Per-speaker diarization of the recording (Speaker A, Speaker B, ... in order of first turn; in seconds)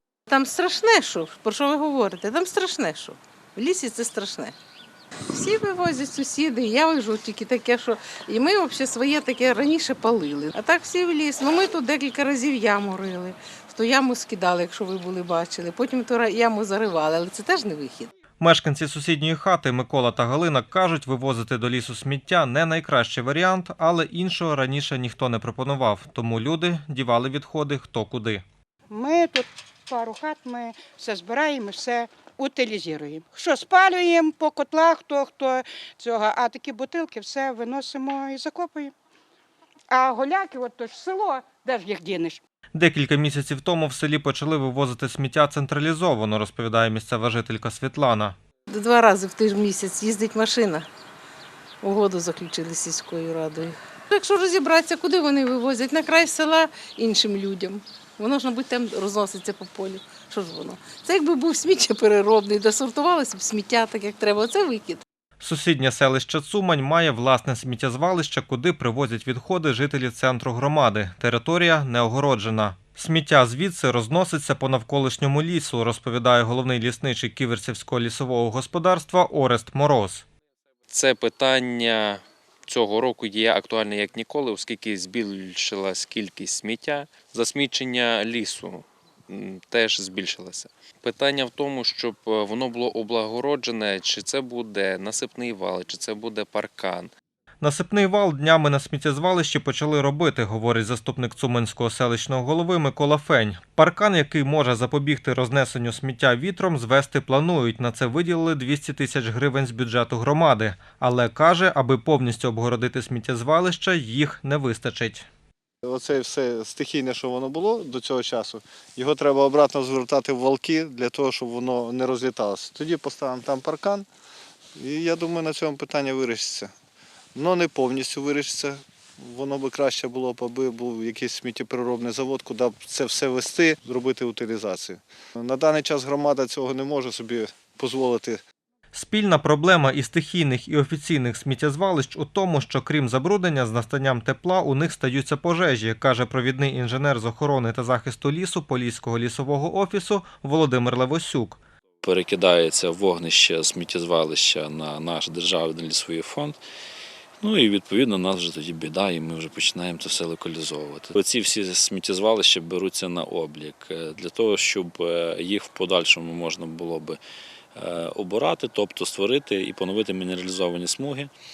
Speaker A: 0.3-4.5, 5.3-18.1, 48.7-50.9, 51.8-65.0
Speaker B: 18.4-28.4, 42.7-48.4, 65.4-80.2, 97.6-115.3, 138.9-151.6
Speaker C: 28.9-38.9, 39.9-42.4
Speaker D: 80.9-97.1
Speaker E: 115.8-124.1, 124.8-126.7, 127.3-138.4
Speaker F: 152.0-156.6, 157.4-167.2, 167.8-171.3